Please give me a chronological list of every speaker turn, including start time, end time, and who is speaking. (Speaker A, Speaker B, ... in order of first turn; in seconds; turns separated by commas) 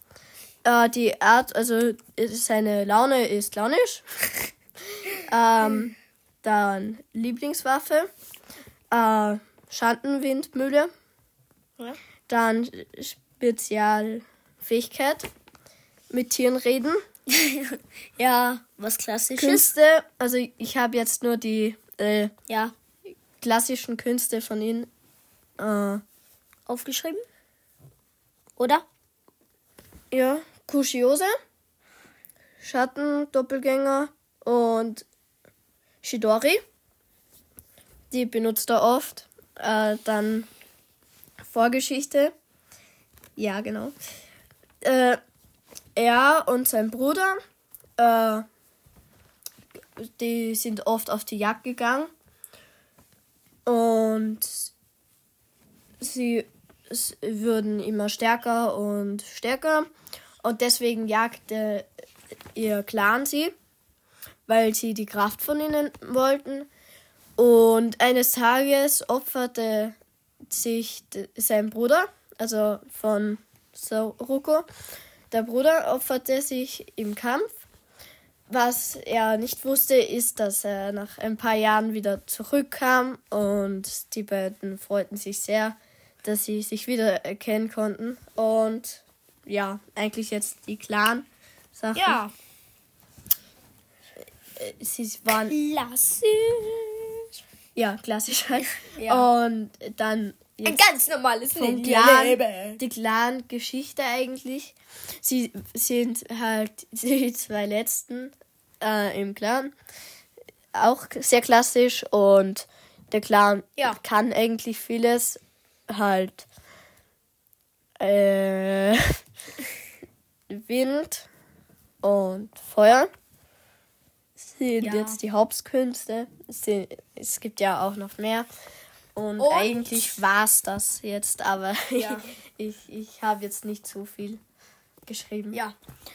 Speaker A: 0.6-4.0, Speaker A: 5.3-8.1, Speaker A: 8.9-10.9, Speaker A: 12.3-15.3, Speaker A: 16.1-17.0, Speaker B: 17.3-19.7, Speaker A: 19.4-22.3, Speaker B: 22.5-22.7, Speaker A: 23.4-24.9, Speaker A: 25.6-26.0, Speaker B: 26.7-27.2, Speaker B: 28.6-28.8, Speaker A: 30.1-31.3, Speaker A: 32.6-35.1, Speaker A: 36.0-36.6, Speaker A: 38.1-40.5, Speaker A: 41.4-42.3, Speaker A: 43.4-43.9, Speaker A: 44.8-45.2, Speaker A: 46.0-47.4, Speaker A: 48.0-48.4, Speaker A: 50.0-52.1, Speaker A: 53.6-54.7, Speaker A: 56.0-59.9, Speaker A: 60.4-61.9, Speaker A: 62.5-63.5, Speaker A: 64.5-66.7, Speaker A: 67.4-70.0, Speaker A: 70.5-74.7, Speaker A: 75.3-77.6, Speaker A: 78.5-92.2, Speaker B: 91.9-92.3, Speaker A: 94.5-95.5, Speaker B: 95.5-97.2, Speaker A: 97.7-100.8, Speaker B: 98.9-99.3, Speaker B: 100.6-102.8, Speaker A: 101.6-109.7, Speaker A: 110.7-116.5, Speaker A: 118.0-119.2, Speaker A: 120.5-121.3, Speaker A: 122.0-123.1, Speaker B: 124.6-125.2, Speaker A: 124.7-128.5, Speaker A: 129.1-134.4, Speaker B: 129.4-130.1, Speaker B: 131.9-132.2, Speaker A: 135.1-135.6